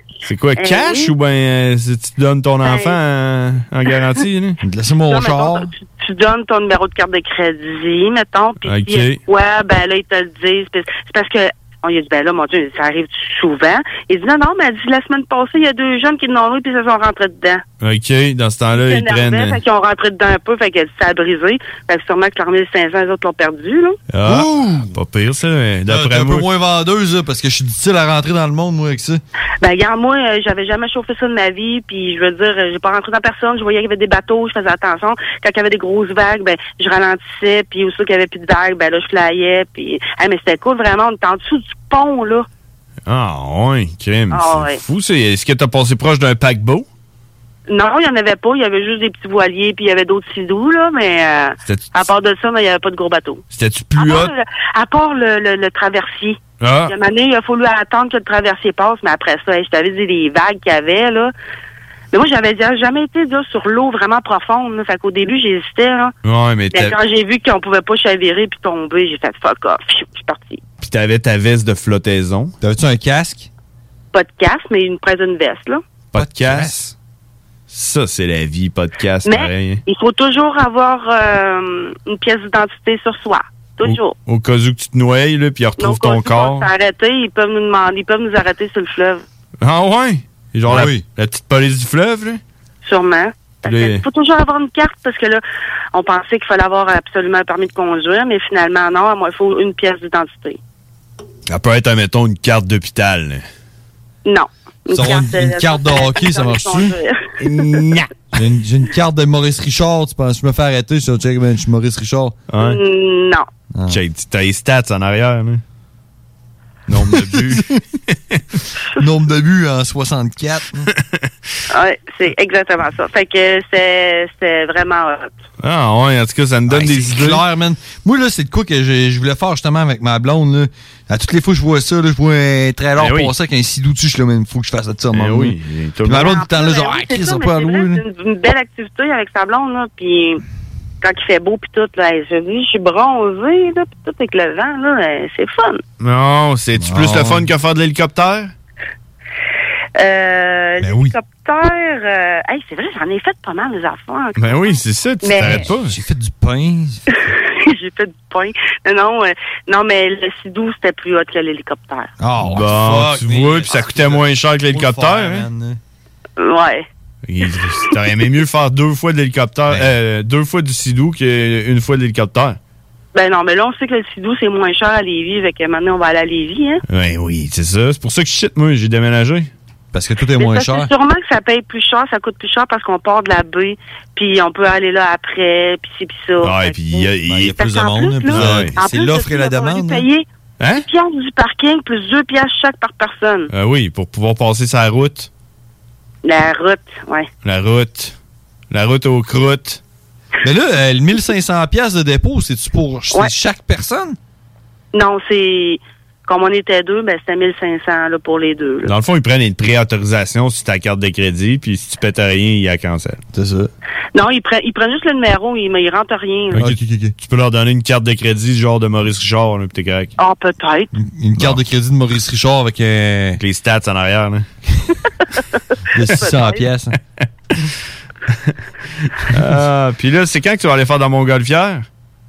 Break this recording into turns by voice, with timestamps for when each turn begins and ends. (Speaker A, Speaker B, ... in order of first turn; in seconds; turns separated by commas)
Speaker A: 0.2-4.6, Speaker B: 0.6-1.1, Speaker B: 2.6-3.0, Speaker C: 4.6-5.7, Speaker B: 5.1-17.6, Speaker A: 8.6-9.2, Speaker A: 17.8-19.6, Speaker B: 18.7-24.0, Speaker A: 24.1-26.5, Speaker C: 24.2-24.9, Speaker C: 25.9-29.2, Speaker B: 29.6-42.5, Speaker A: 43.1-46.9, Speaker B: 44.3-44.8, Speaker B: 47.7-53.4, Speaker A: 51.7-52.1, Speaker A: 53.5-54.3, Speaker B: 54.0-61.3, Speaker A: 56.6-57.0, Speaker B: 62.1-66.1, Speaker A: 66.2-67.0, Speaker B: 66.7-70.6, Speaker A: 70.8-72.5, Speaker C: 72.6-73.5, Speaker B: 74.1-75.8, Speaker A: 76.1-76.9, Speaker C: 76.1-76.8, Speaker A: 77.7-79.8, Speaker B: 79.2-84.1, Speaker A: 83.8-86.7, Speaker B: 85.8-89.2, Speaker A: 89.6-92.4, Speaker C: 90.7-91.0, Speaker B: 92.8-100.6, Speaker A: 93.6-94.0, Speaker A: 101.5-103.5, Speaker B: 104.3-107.2, Speaker C: 104.9-107.0, Speaker A: 107.4-108.1, Speaker C: 108.3-112.4, Speaker A: 112.5-112.8, Speaker B: 112.6-113.5, Speaker C: 113.7-114.0, Speaker A: 113.9-115.6, Speaker A: 116.9-118.4, Speaker C: 117.1-117.8, Speaker C: 119.0-120.9, Speaker A: 121.0-121.3, Speaker B: 121.7-125.3, Speaker A: 125.6-127.4, Speaker C: 126.7-138.0, Speaker A: 133.0-133.3, Speaker A: 135.1-136.4, Speaker B: 136.2-140.4, Speaker B: 141.0-145.8, Speaker A: 146.0-148.5, Speaker C: 146.8-147.5, Speaker B: 150.0-155.6, Speaker C: 150.8-151.1, Speaker A: 154.4-155.9, Speaker C: 155.4-157.1, Speaker B: 157.3-162.1, Speaker C: 162.2-165.8, Speaker A: 162.4-165.5, Speaker B: 166.4-166.9, Speaker A: 167.2-172.6, Speaker B: 173.1-176.8, Speaker A: 176.9-179.5, Speaker C: 179.9-180.9, Speaker B: 180.4-190.2, Speaker A: 186.4-187.6, Speaker C: 187.3-190.1, Speaker A: 188.3-188.8, Speaker A: 190.6-190.9, Speaker B: 190.9-193.5, Speaker A: 193.5-195.3, Speaker B: 196.2-197.3, Speaker A: 197.4-198.2, Speaker A: 198.7-199.8, Speaker C: 200.4-204.2, Speaker B: 204.9-208.9, Speaker A: 208.8-213.2, Speaker C: 213.3-213.7, Speaker B: 214.1-216.6, Speaker A: 216.5-220.1, Speaker C: 216.6-217.1, Speaker B: 220.2-220.9, Speaker C: 220.9-223.4, Speaker A: 223.4-224.5, Speaker C: 225.9-227.0, Speaker B: 226.1-226.6, Speaker A: 229.3-231.9